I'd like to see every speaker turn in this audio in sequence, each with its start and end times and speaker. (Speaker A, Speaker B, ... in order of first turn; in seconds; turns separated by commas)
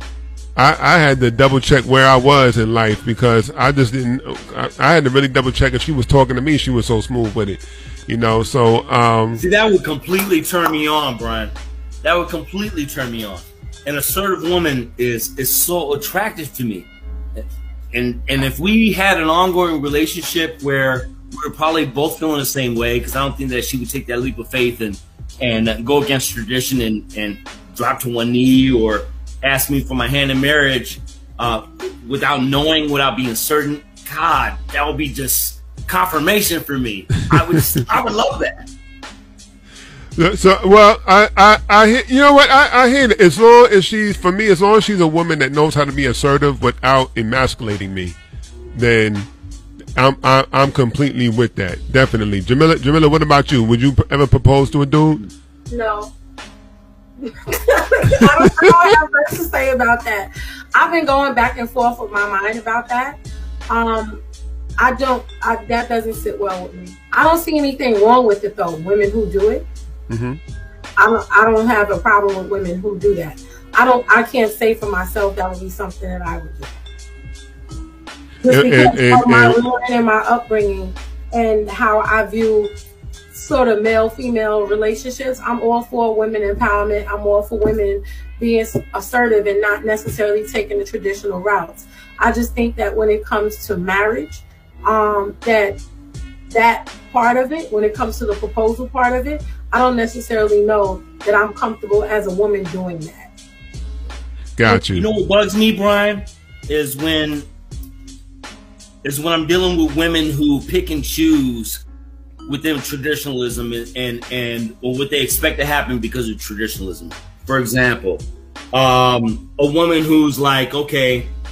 Speaker A: 0.6-9.4, Speaker B: 9.3-38.7, Speaker A: 40.2-48.2, Speaker A: 48.7-49.3, Speaker A: 50.0-55.3, Speaker C: 55.7-56.1, Speaker C: 57.2-64.2, Speaker C: 64.8-69.7, Speaker A: 70.1-70.4, Speaker C: 71.0-76.8, Speaker C: 78.4-82.7, Speaker A: 78.5-79.6, Speaker C: 83.3-95.8, Speaker C: 96.5-103.3, Speaker A: 104.6-105.1, Speaker B: 104.7-107.5, Speaker B: 109.0-111.8, Speaker B: 112.5-121.3